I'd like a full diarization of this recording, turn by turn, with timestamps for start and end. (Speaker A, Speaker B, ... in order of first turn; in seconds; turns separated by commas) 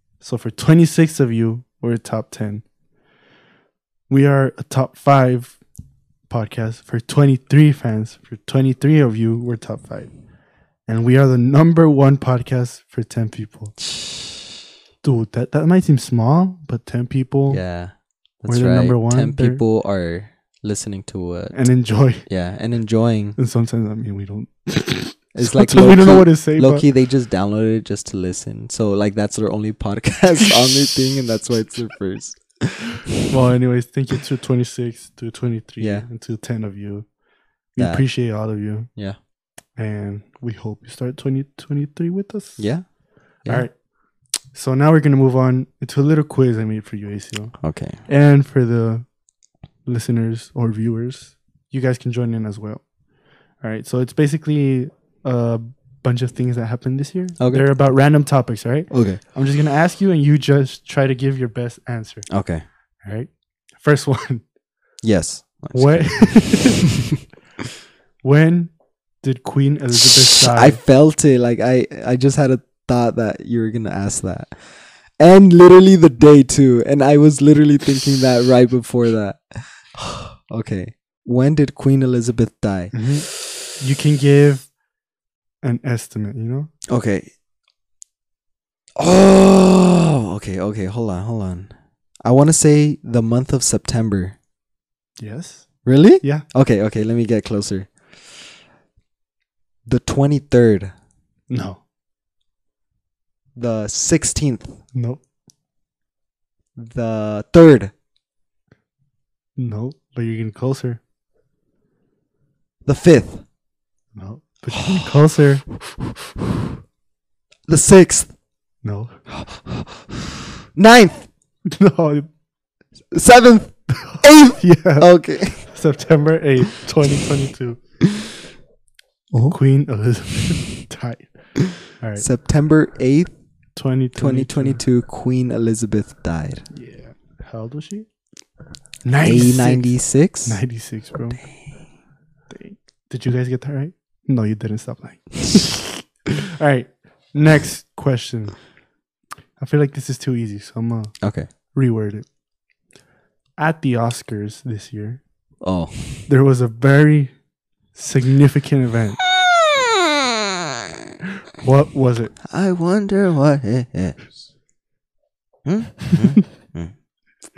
Speaker A: 0.2-2.6, Speaker A: 4.1-5.6, Speaker A: 6.3-10.2, Speaker A: 10.8-13.8, Speaker A: 15.0-17.6, Speaker B: 17.5-23.4, Speaker A: 18.4-19.6, Speaker A: 21.5-22.2, Speaker A: 23.4-26.8, Speaker B: 25.3-33.1, Speaker A: 33.3-37.1, Speaker B: 35.8-36.1, Speaker A: 37.7-38.9, Speaker B: 37.8-38.1, Speaker A: 39.7-43.8, Speaker B: 42.6-42.9, Speaker B: 43.4-43.7, Speaker A: 44.5-49.1, Speaker B: 47.6-48.0, Speaker A: 49.8-52.9, Speaker A: 53.6-62.3, Speaker B: 57.4-57.7, Speaker B: 58.9-59.2, Speaker B: 62.3-62.6, Speaker A: 63.0-64.4, Speaker B: 65.0-66.8, Speaker A: 65.7-66.9, Speaker A: 68.2-70.8, Speaker B: 70.3-83.1, Speaker A: 82.9-84.7, Speaker A: 85.6-86.7, Speaker B: 86.9-87.3, Speaker B: 89.0-94.4, Speaker A: 95.2-96.4, Speaker B: 95.8-98.2, Speaker B: 99.8-100.9, Speaker A: 101.5-101.8, Speaker B: 103.5-104.8, Speaker A: 104.9-105.2, Speaker B: 106.8-107.9, Speaker A: 109.6-111.0, Speaker B: 112.8-113.4, Speaker A: 114.2-115.7, Speaker B: 114.7-115.1, Speaker B: 117.7-118.3, Speaker A: 118.8-119.2, Speaker B: 119.3-120.2, Speaker B: 120.7-121.3, Speaker A: 121.7-122.3, Speaker B: 123.1-125.7, Speaker A: 124.1-127.8, Speaker B: 129.3-129.6, Speaker A: 129.5-132.2, Speaker B: 132.2-133.3, Speaker A: 133.7-134.8, Speaker B: 134.2-136.7, Speaker A: 136.7-138.1, Speaker A: 139.0-141.4, Speaker B: 139.2-140.6, Speaker A: 142.5-148.7, Speaker A: 149.6-152.2, Speaker B: 151.2-151.5, Speaker A: 153.6-155.2, Speaker B: 155.6-156.3, Speaker A: 156.3-157.4, Speaker A: 157.9-159.2, Speaker B: 159.4-160.3, Speaker A: 161.6-162.3, Speaker B: 162.4-164.3, Speaker B: 165.6-166.9